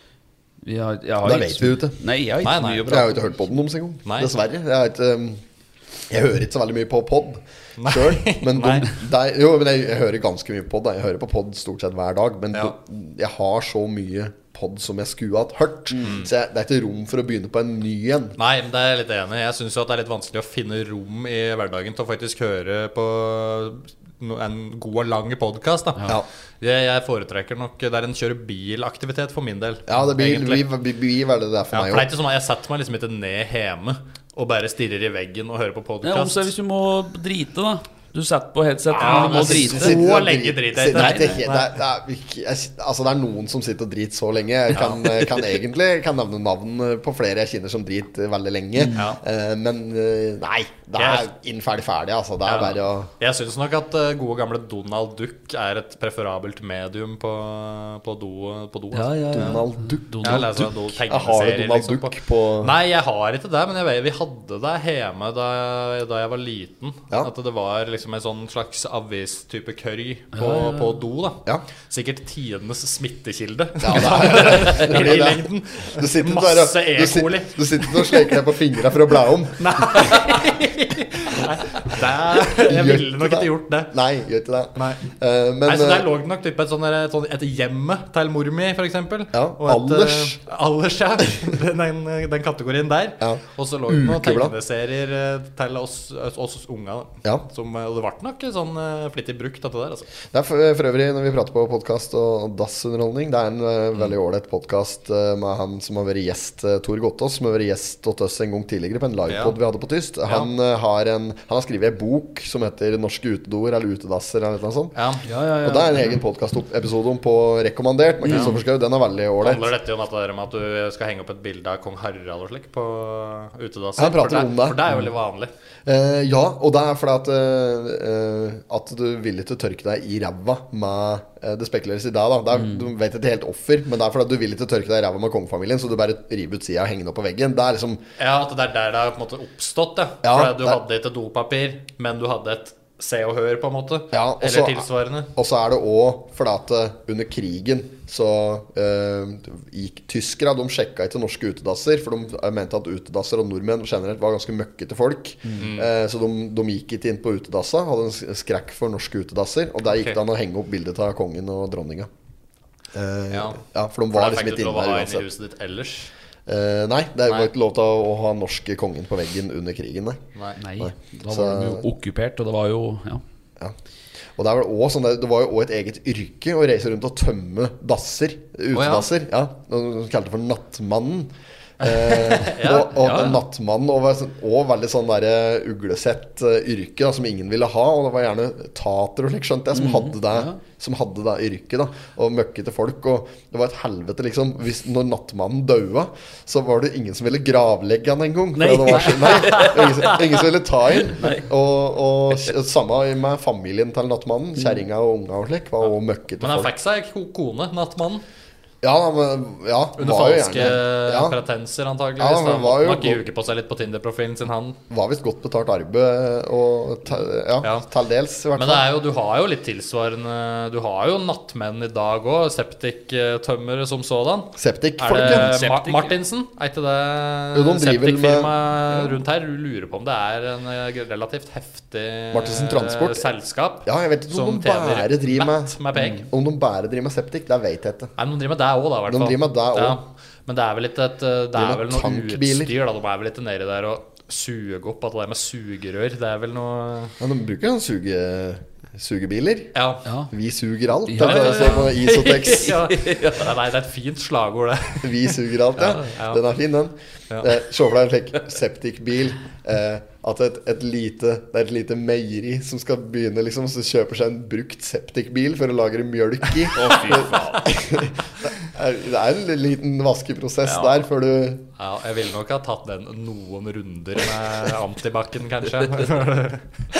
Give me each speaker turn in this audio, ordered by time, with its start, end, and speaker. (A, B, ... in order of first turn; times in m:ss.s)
0:00.6-0:03.5 A
0:01.2-0:02.0 B
0:02.4-0:02.9 C
0:02.9-0:05.4 B
0:04.0-0:04.3 C
0:06.1-0:18.4 B
0:07.8-0:08.9 C
0:16.0-0:16.3 C
0:18.4-0:30.7 C
0:29.9-0:32.1 B
0:31.7-0:36.5 C
0:36.0-0:40.0 A
0:38.9-0:53.1 B
0:38.9-0:41.7 C
0:40.9-0:41.4 A
0:44.7-0:45.0 C
0:48.8-0:49.1 A
0:51.0-0:51.3 C
0:52.4-0:59.6 C
0:58.9-1:00.7 A
0:59.3-1:02.7 B
1:00.2-1:18.4 C
1:10.3-1:11.0 A
1:13.8-1:20.1 B
1:19.6-1:23.9 C
1:22.4-1:26.1 B
1:24.8-1:25.0 C
1:25.6-1:40.1 C
1:29.3-1:30.4 B
1:33.2-1:34.5 B
1:40.3-1:54.9 B
1:49.3-1:49.6 C
1:54.9-1:55.2 C
1:55.2-1:56.2 A
1:55.6-1:59.7 B
1:58.2-1:58.6 A
1:58.3-1:58.5 C
1:59.4-2:05.5 C
2:04.0-2:04.8 B
2:05.8-2:18.0 B
2:12.6-2:12.8 A
2:18.2-2:25.3 C
2:20.2-2:20.8 B
2:24.1-2:42.1 B
2:35.6-2:35.9 C
2:39.9-2:40.2 C
2:42.9-2:45.2 B
2:43.3-2:43.6 C
2:44.1-2:46.1 C
2:46.4-2:50.2 B
2:50.6-2:53.2 A
2:50.8-2:51.9 B
2:54.4-3:26.7 B
2:58.7-2:59.1 C
3:02.0-3:03.4 C
3:03.0-3:03.4 A
3:09.7-3:10.6 A
3:18.6-3:20.2 A
3:19.0-3:20.2 C
3:21.1-3:21.4 A
3:25.8-3:28.2 C
3:28.8-3:31.4 B
3:30.0-3:34.8 C
3:32.2-3:33.2 B
3:34.9-3:38.9 B
3:38.5-3:56.2 C
3:44.6-3:45.5 B
3:45.1-3:46.1 A
3:47.5-3:49.0 B
3:52.3-3:53.3 B
3:53.8-3:58.1 B
3:58.2-4:07.1 C
3:59.1-4:00.0 B
4:01.5-4:02.7 B
4:07.2-4:09.7 B
4:09.7-4:10.0 C
4:10.0-4:10.3 A
4:10.3-4:12.8 B
4:11.1-4:12.0 A
4:11.2-4:15.3 C
4:12.9-4:13.5 A
4:15.0-4:31.6 B
4:15.8-4:16.1 A
4:16.1-4:16.4 C
4:26.7-4:27.8 A
4:30.6-4:30.9 A
4:31.8-4:36.6 C